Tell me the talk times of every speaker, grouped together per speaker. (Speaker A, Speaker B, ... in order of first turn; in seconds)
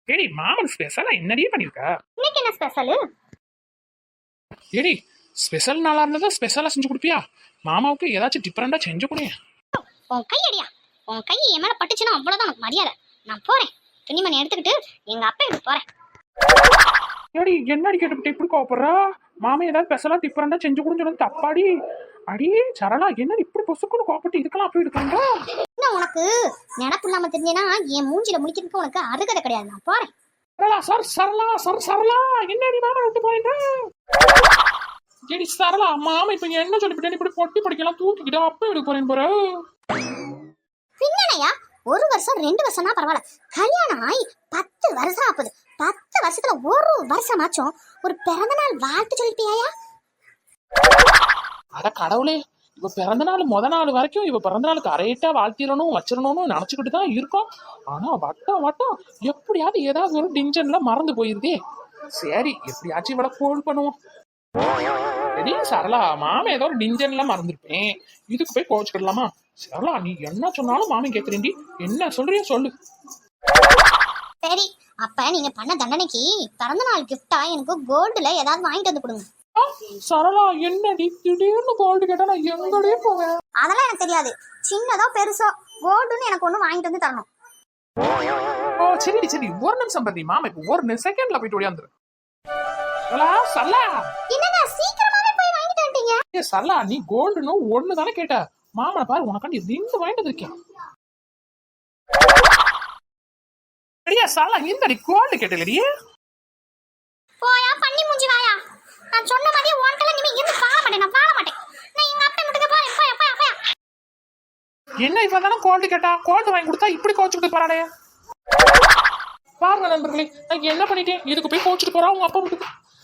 Speaker A: 0.1-1.9, 4.8-9.3, 17.4-21.7, 22.3-25.4, 30.6-33.8, 35.3-39.6, 51.8-61.6, 62.1-64.0, 65.4-72.7, 79.6-83.3, 88.8-91.9, 93.1-94.0, 96.3-100.5, 104.1-105.8, 115.0-117.9, 119.6-122.7
Speaker B: 2.2-3.0, 10.1-15.8, 25.8-30.1, 41.0-49.7, 74.4-79.3, 83.6-87.3, 94.3-96.2, 107.4-108.6, 109.2-113.6